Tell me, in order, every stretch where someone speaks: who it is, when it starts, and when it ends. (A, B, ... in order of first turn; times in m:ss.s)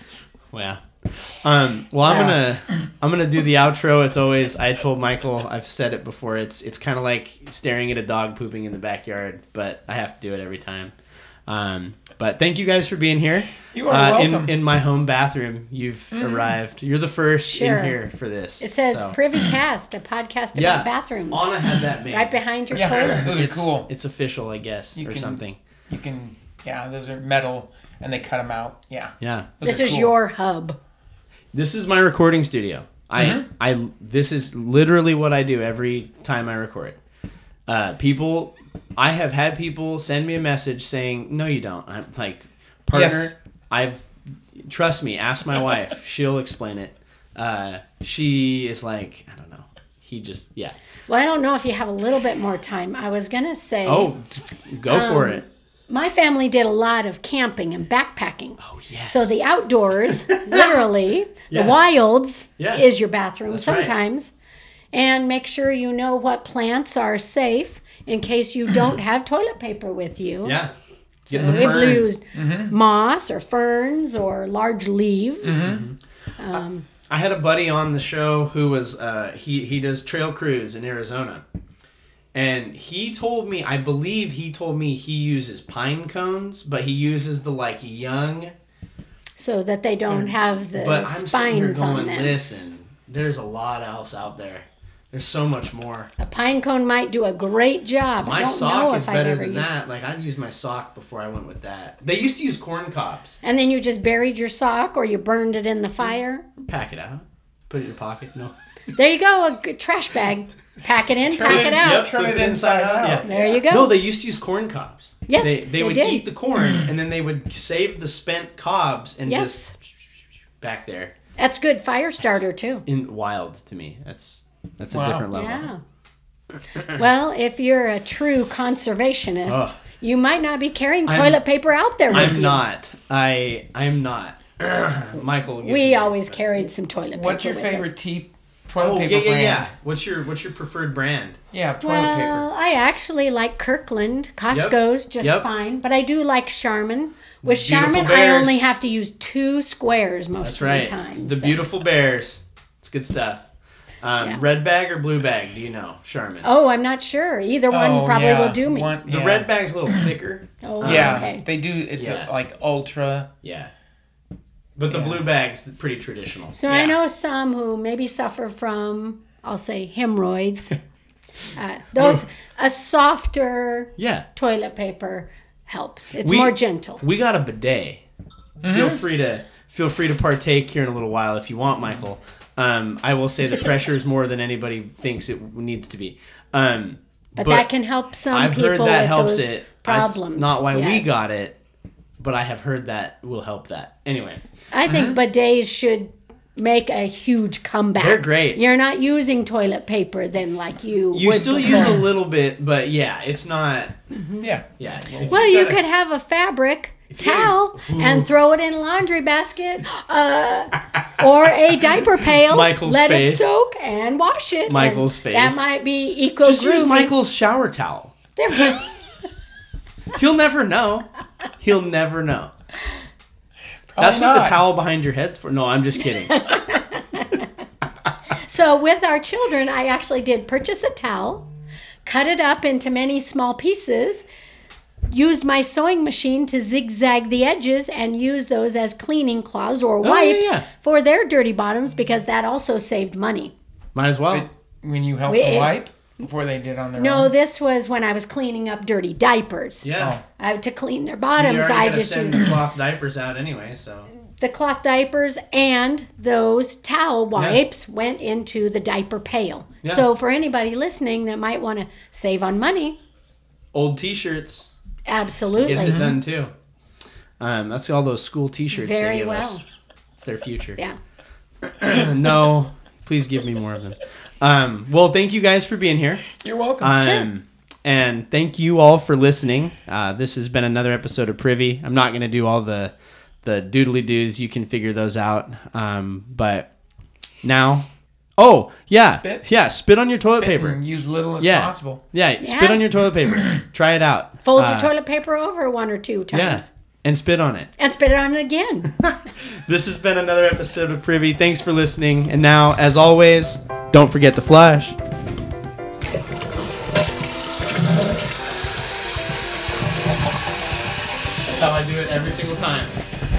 0:00.5-0:10.9 A
0:02.1-0:02.4 B
0:11.5-0:19.2 A
0:13.7-0:14.5 B
0:16.1-0:16.5 B
0:17.5-0:18.0 C
0:18.6-0:23.3 C
0:20.5-0:22.4 A
0:22.7-0:23.9 B
0:22.9-0:25.6 A
0:25.0-0:30.1 B
0:29.2-0:29.5 A
0:29.6-0:30.8 C
0:31.5-0:37.0 A
0:33.2-0:33.4 B
0:37.7-0:50.8 A
0:42.9-0:43.3 B
0:51.1-0:54.1 C
0:53.8-0:55.4 A
0:54.9-1:04.3 C
0:58.6-0:59.3 A
1:00.3-1:00.8 A
1:01.5-1:01.8 A
1:02.6-1:02.8 A
1:03.5-1:03.9 A
1:04.9-1:10.6 C
1:10.4-1:10.7 A
1:11.3-1:12.1 A
1:11.3-1:15.8 C
1:11.4-1:12.7 B
1:15.4-1:15.8 B
1:15.5-1:16.0 A
1:16.4-1:16.9 C
1:17.1-1:21.4 A
1:22.3-1:28.5 A
1:29.4-1:32.7 C
1:30.7-1:36.1 A
1:36.2-1:39.7 C
1:38.2-1:43.4 A
1:43.4-1:46.4 C
1:46.6-1:48.5 A
1:48.9-1:52.1 C
1:51.3-1:53.4 B
1:51.4-1:59.6 A
1:53.2-1:54.0 C
1:55.3-1:56.2 C
1:59.2-1:59.7 C
2:00.6-2:01.1 A
2:01.4-2:02.8 C
2:02.4-2:05.7 A
2:04.9-2:05.3 B
2:05.3-2:05.8 C
2:06.8-2:12.6 C
2:09.5-2:09.7 A
2:11.1-2:11.4 A
2:12.1-2:16.5 A
2:15.6-2:17.9 C
2:17.1-2:19.7 B
2:18.8-2:21.4 A
2:21.5-2:22.5 B
2:21.8-2:31.6 C
2:24.5-2:25.4 A
2:27.4-2:28.6 A
2:30.4-2:33.5 A
2:34.0-2:36.5 A
2:36.4-2:38.9 C
2:37.7-2:40.1 B
2:39.0-2:41.3 A
2:40.6-2:41.4 C
2:40.8-2:43.3 B
2:42.0-2:42.3 A
2:43.4-2:43.7 A
2:44.8-2:46.8 A
2:44.9-2:45.2 B
2:46.5-2:50.8 C
2:46.7-2:46.9 B
2:51.5-2:57.0 C
2:54.0-2:54.2 A
2:56.2-2:58.0 A
2:58.6-3:07.7 A
2:58.6-2:59.0 B
3:07.4-3:11.2 C
3:08.3-3:11.6 A
3:12.2-3:14.4 A
3:14.7-3:22.0 C
3:14.9-3:15.2 B
3:18.0-3:18.6 A
3:21.1-3:23.9 A
3:24.4-3:25.7 B
3:24.8-3:25.8 A
3:25.2-3:37.1 C
3:27.1-3:28.3 A
3:32.2-3:33.5 A
3:34.7-3:35.6 A
3:36.4-3:38.1 A
3:38.4-3:38.9 C
3:40.1-3:42.5 A
3:43.9-3:44.6 B
3:44.0-3:46.5 A
3:46.2-3:47.5 C
3:48.4-3:51.4 C
3:52.0-3:54.2 C
3:55.1-4:03.5 C
4:00.0-4:00.6 A
4:03.9-4:04.5 A
4:04.3-4:07.3 B
4:05.3-4:05.7 C
4:07.0-4:09.9 C
4:09.8-4:10.2 A
4:10.0-4:10.2 B
4:10.4-4:12.5 C
4:11.4-4:14.1 A
4:14.4-4:23.0 C
4:17.3-4:17.6 A
4:23.7-4:24.7 A
4:25.1-4:26.0 C
4:25.6-4:26.5 A
4:25.7-4:26.1 B
4:27.4-4:29.6 A
4:28.7-4:29.6 C
4:30.2-4:30.8 A
4:31.6-4:46.7 A
4:36.3-4:37.2 B
4:47.4-4:50.8 A
4:49.1-4:49.4 B
4:50.4-4:52.0 B
4:51.4-4:54.9 A
4:52.4-4:52.8 C
4:54.4-4:56.7 C
4:56.3-4:57.7 A
4:57.8-4:58.9 C
4:58.9-5:05.0 A
5:11.4-5:13.0 A